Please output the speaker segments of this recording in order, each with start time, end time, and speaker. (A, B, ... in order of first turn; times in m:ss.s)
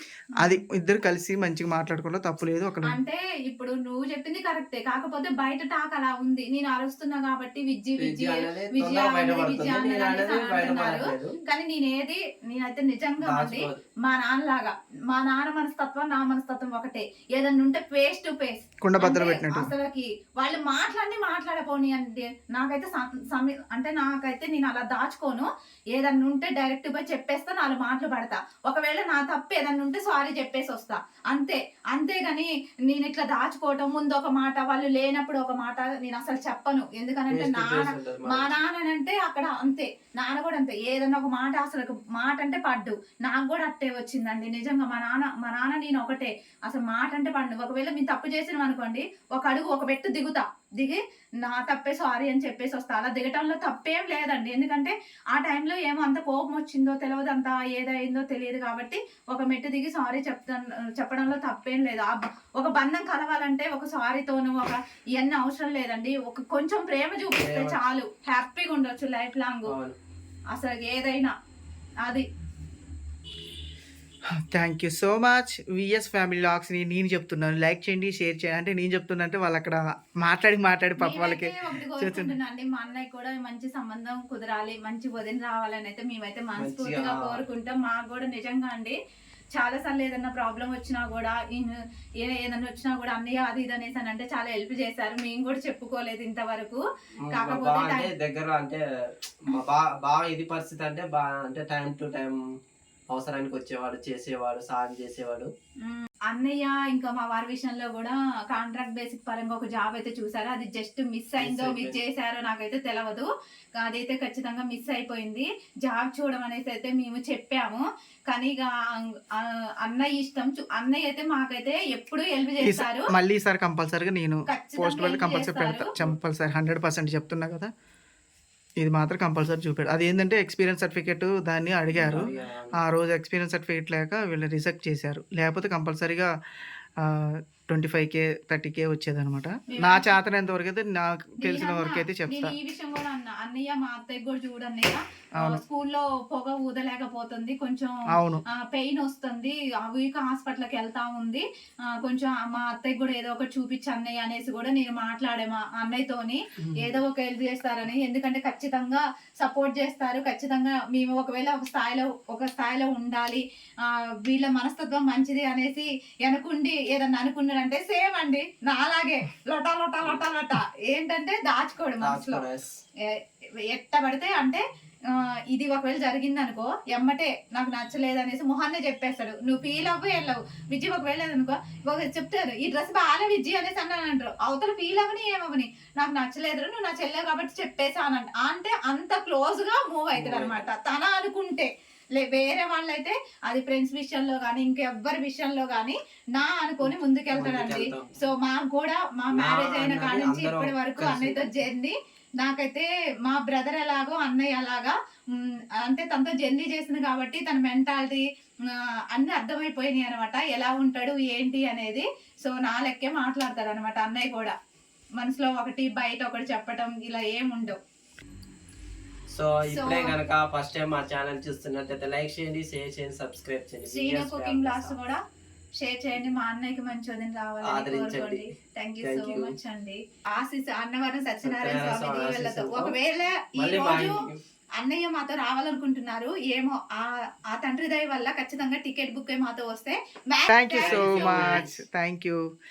0:00.3-0:00.6 A
0:00.4-0:03.0 B
0:02.8-1:09.7 A
0:08.0-0:11.3 C
0:13.2-0:13.8 C
0:18.8-0:19.7 B
0:37.3-0:38.6 C
1:07.3-1:07.9 C
1:09.7-1:10.0 C
1:10.5-1:11.3 A
1:14.3-1:22.3 B
1:21.0-1:29.0 A
1:26.6-1:27.4 C
1:29.6-1:36.8 A
1:37.3-1:42.4 C
1:37.3-1:38.1 A
1:43.1-1:45.5 C
1:45.8-2:03.1 A
1:51.4-1:52.0 C
2:02.6-2:07.7 B
2:04.5-2:05.9 A
2:08.8-2:16.3 B
2:12.0-2:12.8 C
2:12.0-2:12.3 A
2:17.0-2:22.5 B
2:19.7-2:20.1 A
2:21.4-2:27.9 A
2:28.1-2:28.4 B
2:28.5-2:52.4 A
2:36.6-2:37.0 C
2:52.0-2:52.8 C
2:53.1-3:34.6 A
3:10.1-3:10.6 C
3:17.3-3:18.1 C
3:19.3-3:21.6 C
3:35.2-3:37.8 A
3:39.3-3:45.0 C
3:39.7-3:40.1 A
3:43.8-3:45.2 A
3:45.8-3:54.2 A
3:47.6-3:48.5 C
3:49.0-3:49.5 C
3:51.4-3:53.0 C
3:53.6-3:54.4 C
3:54.8-4:01.7 A
4:00.5-4:02.4 B
4:00.8-4:01.7 C